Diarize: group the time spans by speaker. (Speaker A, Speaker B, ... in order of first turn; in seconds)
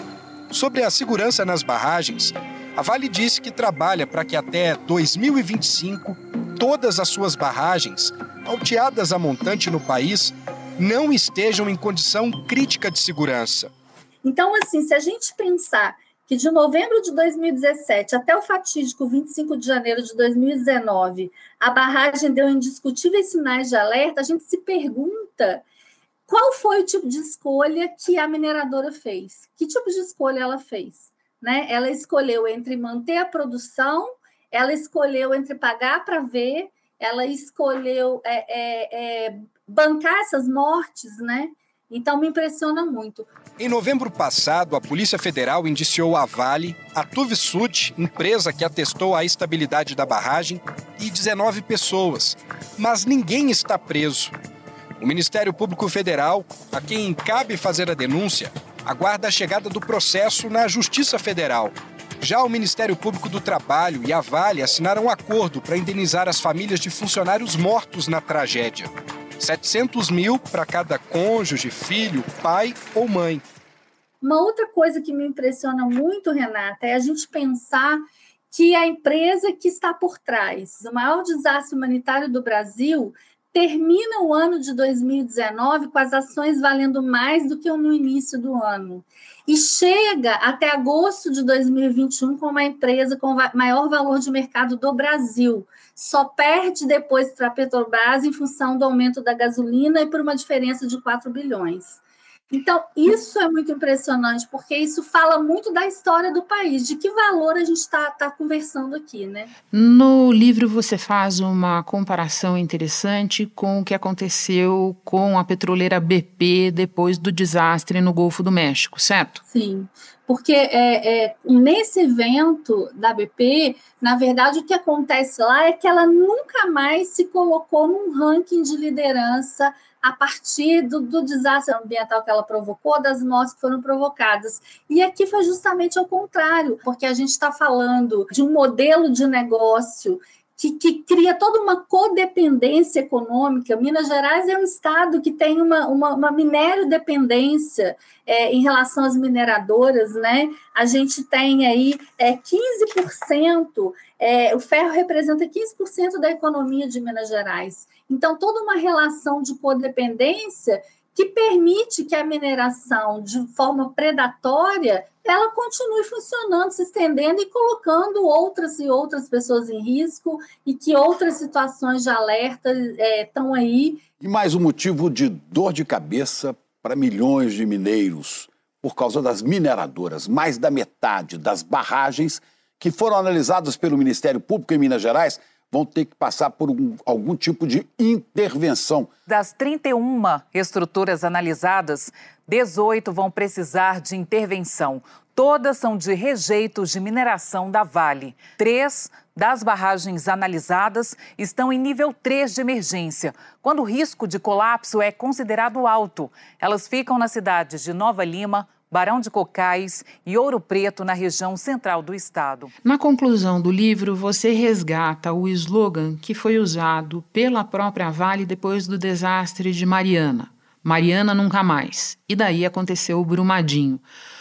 Speaker A: 0.5-13.7, 43.6-54.3, 55.0-73.4
Speaker B: 14.2-25.6, 26.3-43.3, 74.2-102.0, 102.5-109.5, 119.5-174.0
Speaker C: 109.7-119.4, 212.8-224.0
Speaker D: 174.2-189.1
Speaker E: 189.3-212.7